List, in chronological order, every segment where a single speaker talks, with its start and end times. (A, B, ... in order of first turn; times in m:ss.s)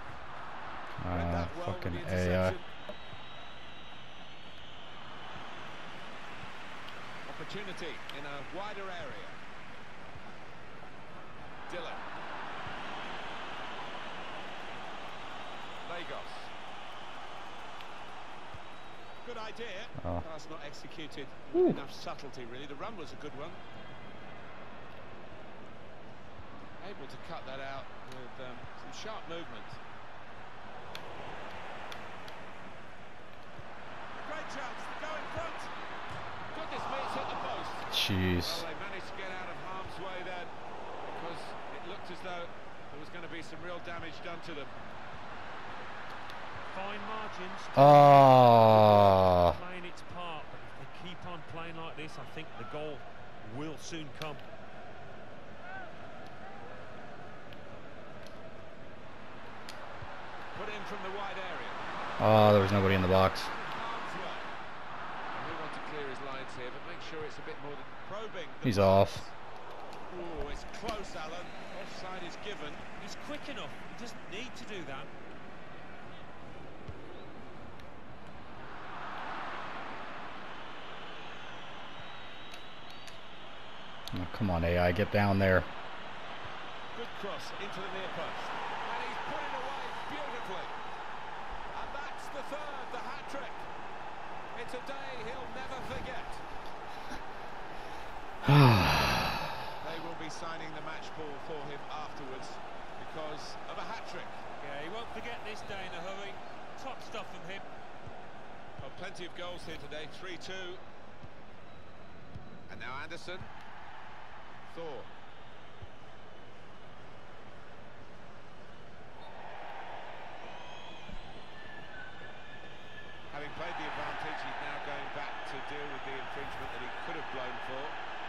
0:01.0-0:02.6 A
0:01.1-0:02.7 B
0:07.3-0:09.4 B
0:11.7-0:12.0 B
0:15.8-0:16.5 B
0:19.2-0:23.6 B
0:20.0-0:20.2 A
0:21.5-0:21.8 A
0:26.8-0:29.8 B
0:34.1-0:35.7 B
0:36.5-0:37.9 B
0:37.9-0:38.7 A
0:38.4-0:40.5 B
0:41.0-0:44.7 B
0:46.7-0:54.4 C
0:47.8-0:49.6 A
1:00.6-1:04.5 B
1:02.2-1:03.5 A
1:05.3-1:09.3 B
1:08.6-1:09.3 A
1:10.1-1:12.8 B
1:13.0-1:15.1 C
1:24.1-1:25.7 A
1:26.9-1:30.8 B
1:31.7-1:33.7 B
1:34.5-1:36.4 B
1:38.4-1:39.6 A
1:39.8-1:44.4 B
1:44.6-1:47.6 C
1:48.8-1:50.8 B
1:52.7-1:53.5 B
1:54.7-1:55.1 B
2:03.3-2:08.0 B